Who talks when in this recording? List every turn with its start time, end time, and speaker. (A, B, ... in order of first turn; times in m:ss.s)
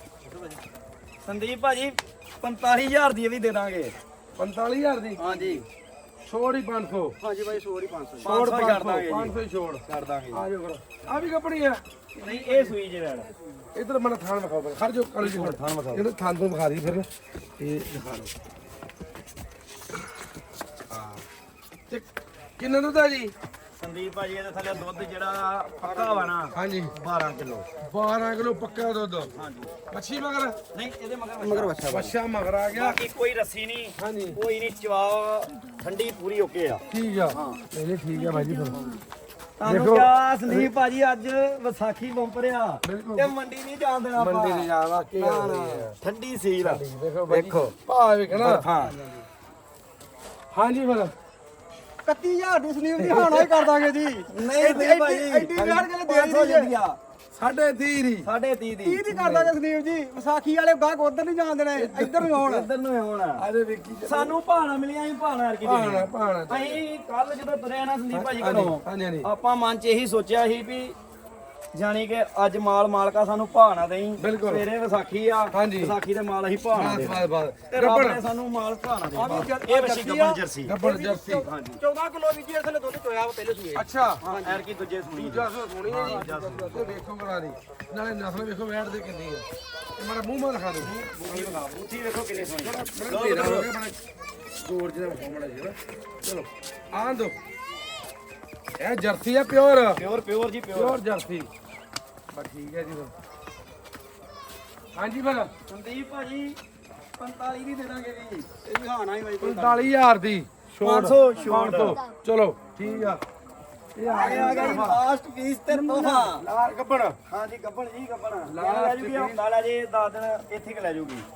0:01.2-0:03.9 A
0:04.4-0:05.2 B
0:05.2-0:05.6 A
0:05.3-0:05.6 C
0:06.2-0:07.2 B
0:07.2-0:08.3 C
0:08.2-0:10.5 A
0:08.2-0:12.7 B
0:12.2-0:13.3 A
0:13.8-0:17.1 B
0:15.2-0:16.1 A
0:17.6-0:18.3 B
0:22.6-0:23.3 B
0:23.8-0:27.7 A
0:25.8-0:26.3 C
0:26.5-0:26.9 B
0:27.8-0:29.3 B
0:29.3-0:29.8 A
0:29.9-0:30.6 B
0:30.7-0:31.8 A
0:31.4-0:32.1 C
0:31.9-0:33.0 B
0:32.7-0:37.6 A
0:34.0-0:34.4 B
0:36.9-0:38.8 B
0:38.7-0:39.0 A
0:39.6-0:47.7 A
0:39.6-0:40.7 B
0:42.8-0:43.3 B
0:44.2-0:45.9 B
0:46.6-0:48.7 B
0:48.3-0:49.0 A
0:48.8-0:49.2 C
0:50.5-0:51.1 B
0:52.0-0:56.7 C
0:53.0-0:53.5 B
0:54.3-0:57.0 A
0:55.6-0:55.8 B
0:57.3-0:58.3 B
0:58.2-0:59.0 A
0:58.8-1:02.7 C
0:59.1-0:59.5 B
1:01.7-1:02.4 B
1:02.4-1:03.4 A
1:03.4-1:04.3 B
1:04.0-1:11.0 A
1:05.6-1:06.8 B
1:08.1-1:09.3 B
1:11.7-1:20.8 A
1:14.2-1:14.7 B
1:15.5-1:16.0 B
1:16.7-1:18.2 B
1:19.1-1:24.6 C
1:20.6-1:21.5 B
1:21.4-1:21.8 A
1:23.7-1:24.2 B
1:24.2-1:27.0 A
1:25.2-1:29.4 B
1:26.0-1:26.7 C
1:30.0-1:31.6 B
1:30.8-1:33.7 A
1:32.6-1:34.0 B
1:34.6-1:37.4 B
1:38.8-1:40.0 B
1:40.0-1:41.0 A
1:40.7-1:41.5 B
1:42.3-1:43.1 B
1:45.0-1:45.5 B
1:45.7-1:46.6 A
1:47.2-1:48.5 A
1:48.6-1:49.9 C
1:49.4-1:53.2 B
1:50.8-1:52.0 A
1:52.8-1:53.1 A
1:54.0-1:55.0 B
1:54.1-1:54.9 C
1:54.1-1:56.4 A
1:55.7-1:56.3 C
1:56.3-1:57.2 B
1:57.3-2:01.3 A
1:58.5-1:59.4 B